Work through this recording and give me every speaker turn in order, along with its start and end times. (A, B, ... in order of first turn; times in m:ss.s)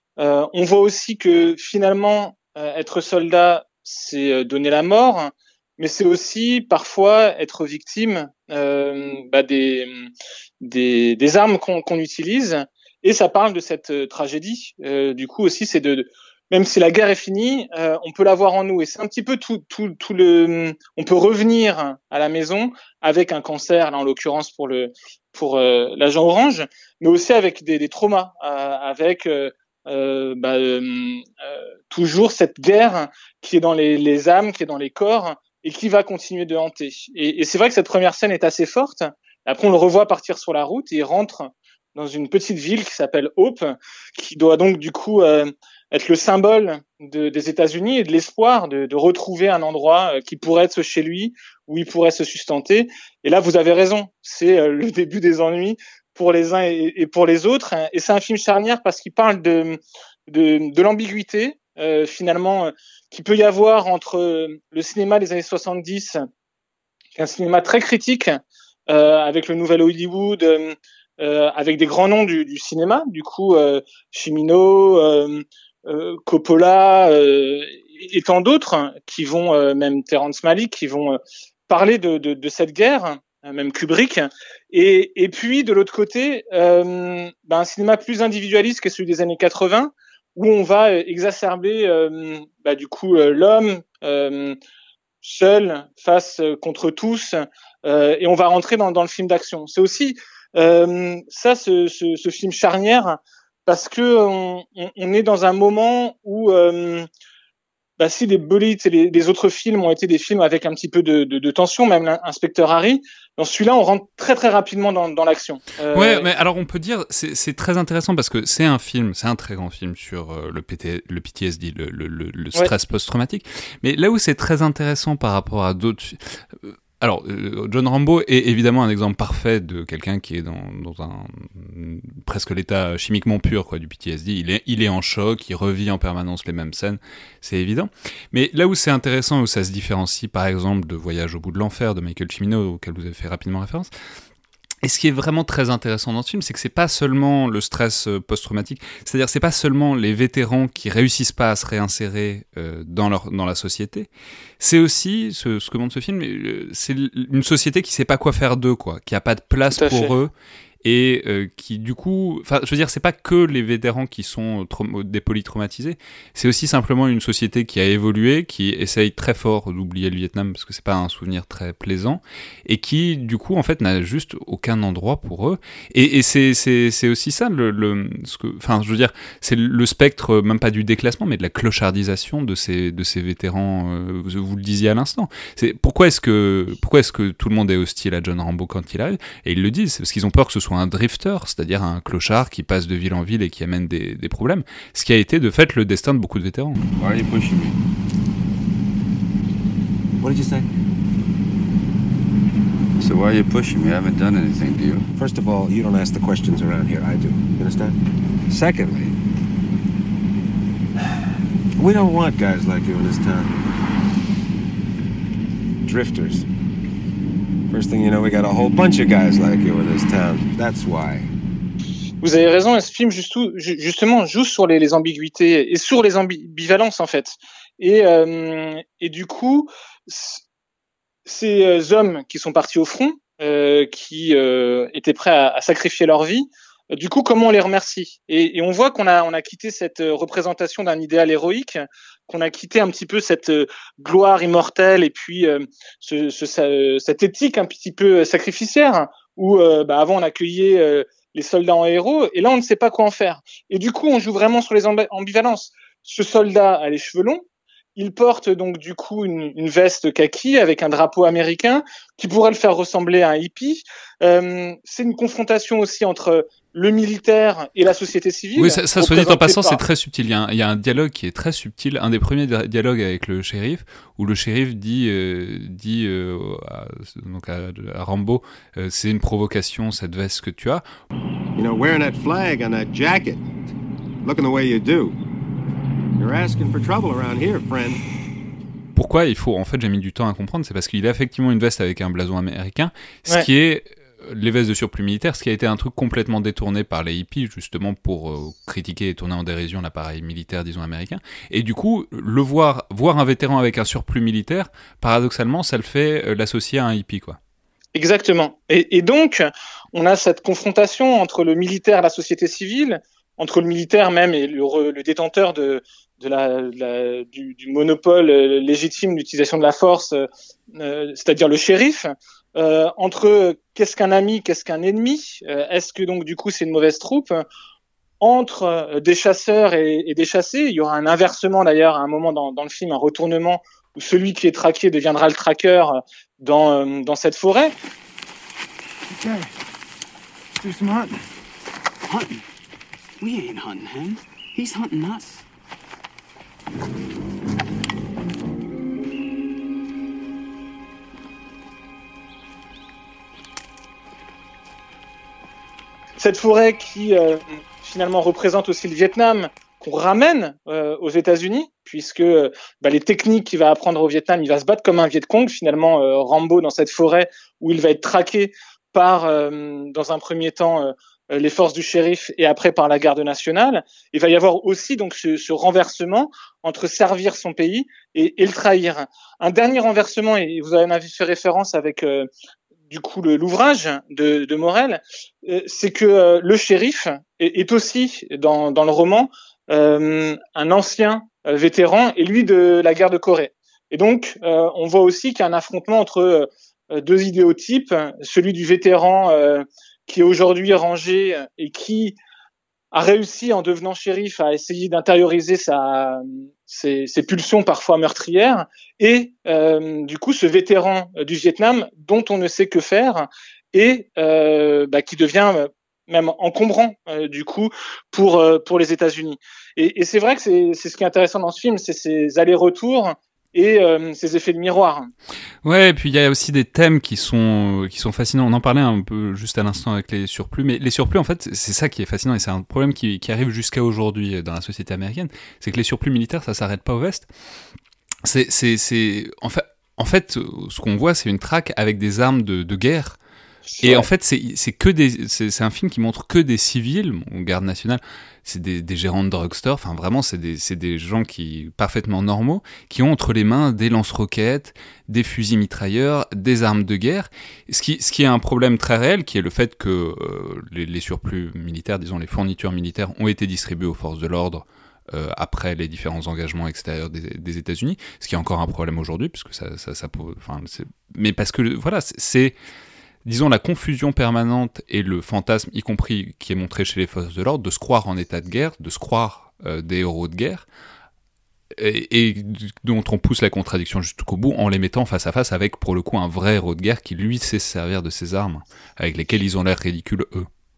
0:00.2-0:10.1 A
0:10.6-0:31.3 A
0:31.9-1:06.2 A
1:07.2-1:34.6 A
1:35.2-1:47.1 A
1:48.0-1:56.3 A
1:55.9-2:23.9 B
2:24.8-2:34.1 B
2:34.6-2:40.3 B
2:39.7-2:40.1 A
2:40.8-3:16.8 B
3:17.0-3:17.8 C
3:20.2-3:20.7 D
3:23.0-3:25.1 C
3:25.2-3:28.0 D
3:28.5-3:29.2 D
3:31.8-3:33.6 D
3:35.8-3:36.4 D
3:37.7-3:41.3 D
3:42.2-3:50.4 A
3:51.2-4:17.4 A
4:18.0-4:29.8 A
4:28.6-4:40.8 B
4:41.6-4:43.5 D
4:44.2-4:45.2 D
4:46.2-4:48.0 D
4:48.9-5:07.4 B
5:07.9-5:27.4 A
5:28.2-5:37.7 A
5:40.6-5:41.0 E
5:42.1-5:42.4 E
5:43.2-5:45.4 E
5:56.2-6:22.3 A
6:22.9-6:42.2 A
6:42.9-7:05.1 A
7:05.6-7:17.3 B
7:18.2-7:23.2 B
7:23.7-7:24.1 A
7:23.8-7:52.6 B
7:53.2-8:00.6 B
8:01.8-8:10.5 B